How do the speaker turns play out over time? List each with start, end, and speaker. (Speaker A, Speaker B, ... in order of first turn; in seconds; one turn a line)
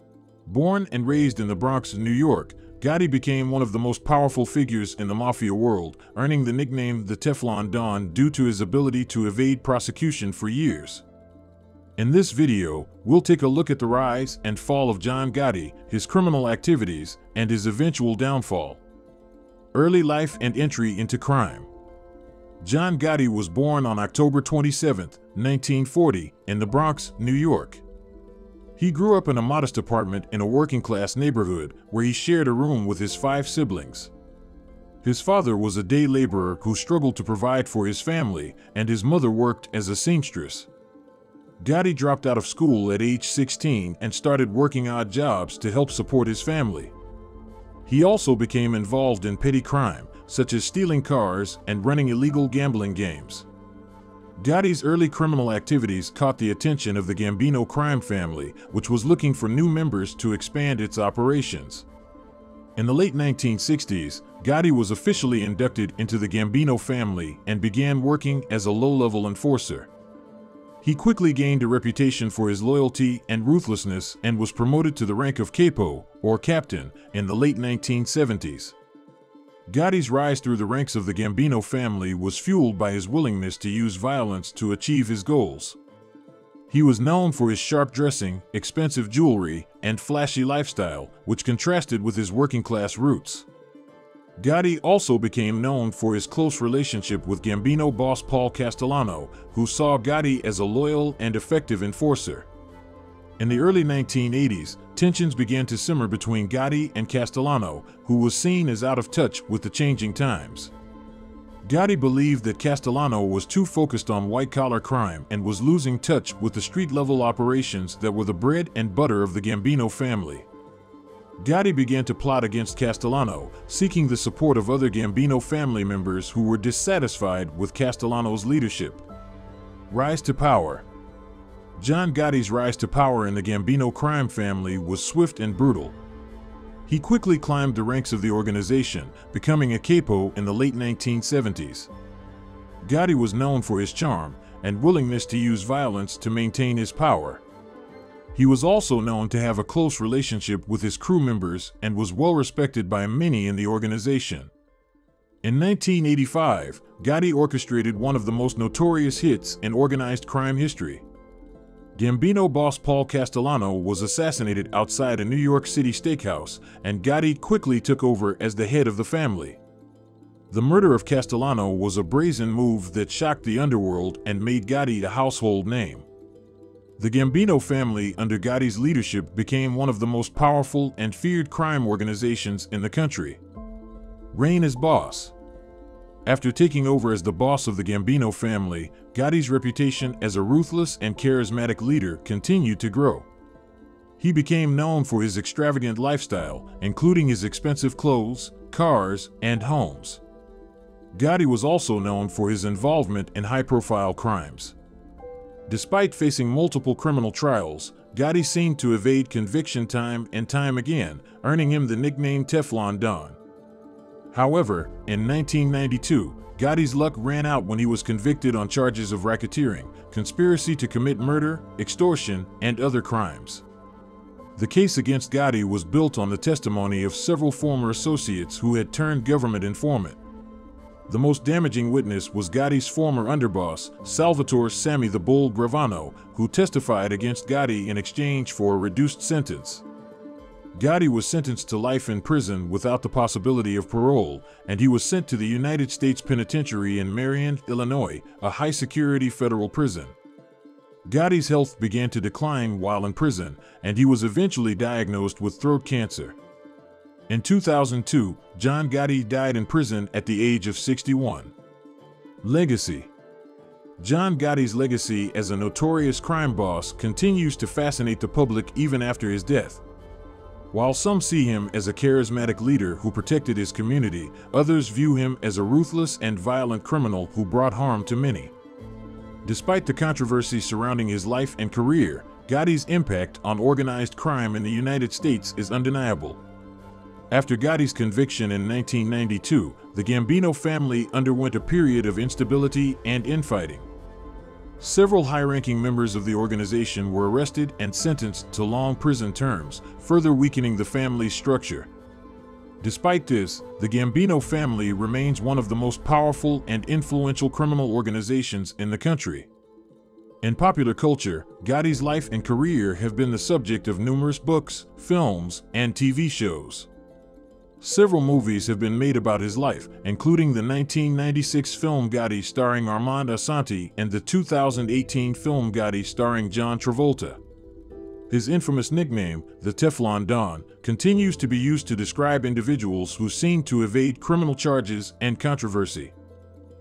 Speaker A: 0.5-11.0
Speaker A: 12.0-18.8
Speaker A: 19.7-21.7
Speaker A: 22.6-27.8
Speaker A: 28.8-34.1
Speaker A: 35.0-40.7
Speaker A: 41.6-46.9
Speaker A: 47.9-53.5
Speaker A: 54.4-61.9
Speaker A: 62.8-69.9
Speaker A: 70.8-78.8
Speaker A: 79.7-85.8
Speaker A: 86.7-93.5
Speaker A: 94.4-102.5
Speaker A: 103.4-110.7
Speaker A: 111.6-120.5
Speaker A: 121.4-129.1
Speaker A: 129.9-130.9
Speaker A: 131.8-136.0
Speaker A: 136.9-141.9
Speaker A: 142.8-147.4
Speaker A: 148.3-154.5
Speaker A: 155.4-161.0
Speaker A: 161.9-169.6
Speaker A: 170.5-176.1
Speaker A: 177.0-183.4
Speaker A: 184.3-185.3
Speaker A: 186.3-193.3
Speaker A: 194.2-200.2
Speaker A: 201.1-204.8
Speaker A: 205.7-213.4
Speaker A: 214.3-223.7
Speaker A: 224.6-230.2
Speaker A: 231.1-239.8
Speaker A: 240.7-250.2
Speaker A: 251.1-256.4
Speaker A: 257.3-261.5
Speaker A: 262.4-263.1
Speaker A: 264.0-269.8
Speaker A: 270.7-278.5
Speaker A: 279.4-286.4
Speaker A: 287.3-293.9
Speaker A: 294.8-301.9
Speaker A: 302.8-309.5
Speaker A: 310.4-316.9
Speaker A: 317.8-327.4
Speaker A: 328.3-336.1